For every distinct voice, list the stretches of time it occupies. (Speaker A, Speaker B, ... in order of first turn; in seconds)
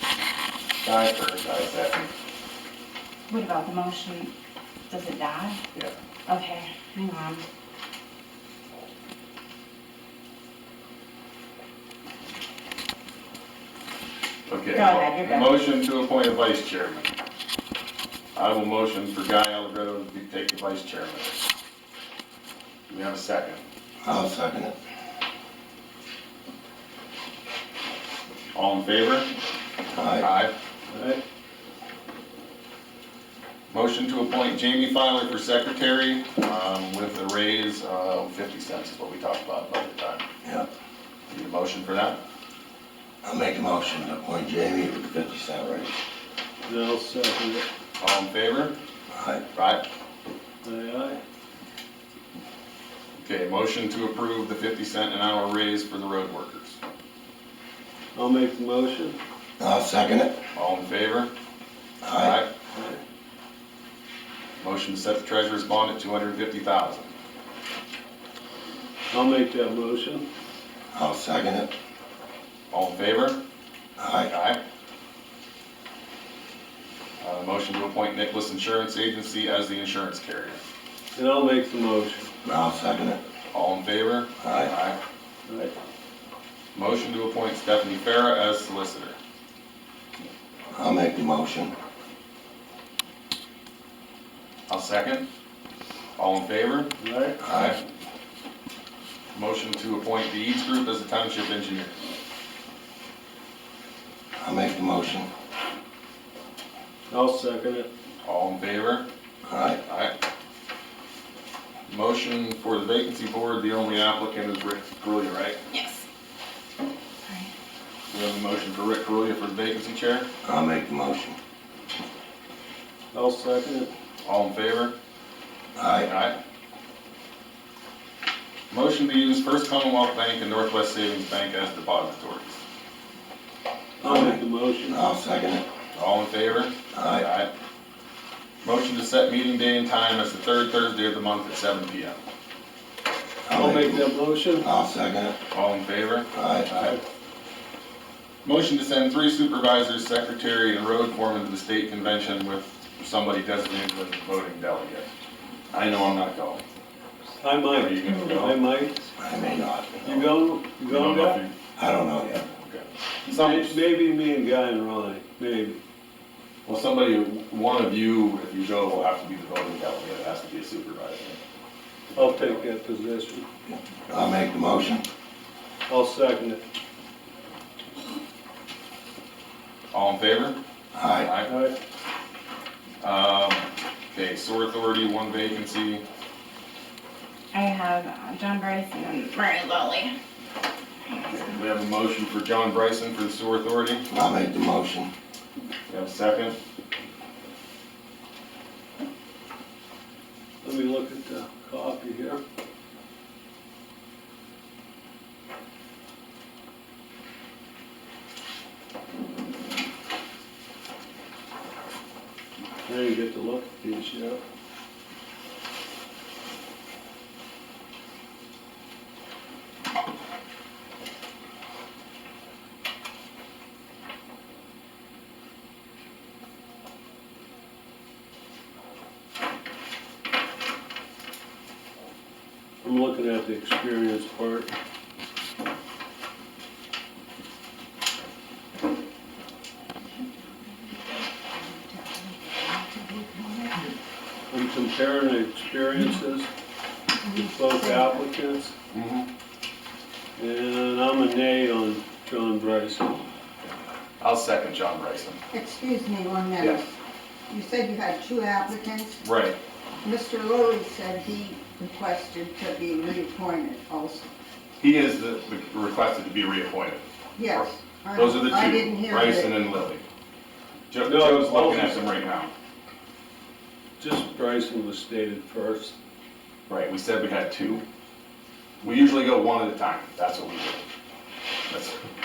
Speaker A: 0.8-2.1, 14.5-17.1, 18.3-21.4, 22.9-23.6, 28.5-29.3, 30.2-30.5, 33.7-40.2, 41.3-42.2, 48.0-48.8, 49.5-49.8, 53.2-56.8, 60.5-61.3, 62.1-62.5, 64.6-67.1, 72.7-73.4, 74.2-74.6, 77.2-80.6, 83.5-85.0, 86.7-89.2, 94.7-95.3, 96.2-97.8, 99.3-102.0, 108.2-109.0, 109.8-110.1, 111.9-115.6, 118.1-120.3, 124.2-124.9, 126.0-126.4, 128.7-132.6, 135.9-137.5, 138.6-142.2, 145.5-146.9, 148.4-155.1, 155.7-156.6, 157.6-158.6, 160.9-161.5, 162.6-163.8, 166.7-171.4, 172.1-172.6, 179.9-180.6, 181.2-181.5, 183.0-186.0, 191.3-194.1, 195.9-196.6, 248.9-249.3, 254.2-255.4, 259.2-259.6, 264.8-270.0, 270.9-272.5, 276.7-277.8, 278.8-280.8, 281.7-282.0
Speaker B: 3.3-4.3, 4.9-5.6, 6.3-7.4, 14.7-15.6, 115.7-116.0, 187.5-190.1, 191.1-191.6
Speaker C: 24.0-24.7, 29.9-30.3, 43.2-45.9, 49.1-49.4, 59.6-60.4, 62.0-62.4, 70.9-71.7, 74.0-74.3, 82.4-83.2, 84.4-84.7, 90.7-91.7, 97.4-97.8, 104.4-105.3, 109.5-109.8, 120.4-121.3, 125.8-126.1, 134.0-135.7, 136.9-137.3, 143.5-145.3, 146.3-146.7, 159.2-160.2, 161.8-162.4, 173.7-175.0, 180.9-181.3, 194.1-195.1
Speaker D: 30.9-31.2, 46.6-47.6, 50.6-51.2, 58.1-59.2, 69.1-70.2, 81.1-82.3, 85.5-85.7, 97.0-97.4, 107.1-107.9, 123.1-123.9, 134.0-135.0, 143.5-144.7, 157.4-159.1, 160.0-161.4, 163.3-165.8, 172.1-173.4, 175.9-176.6, 181.4-181.8, 200.6-202.4, 212.8-214.4, 232.8-234.7, 244.5-246.5, 247.4-248.7, 250.4-253.2, 271.0-272.0, 274.0-276.0
Speaker E: 241.4-243.9, 247.2-248.2, 255.5-256.9, 257.5-259.2, 260.0-264.3, 267.4-269.6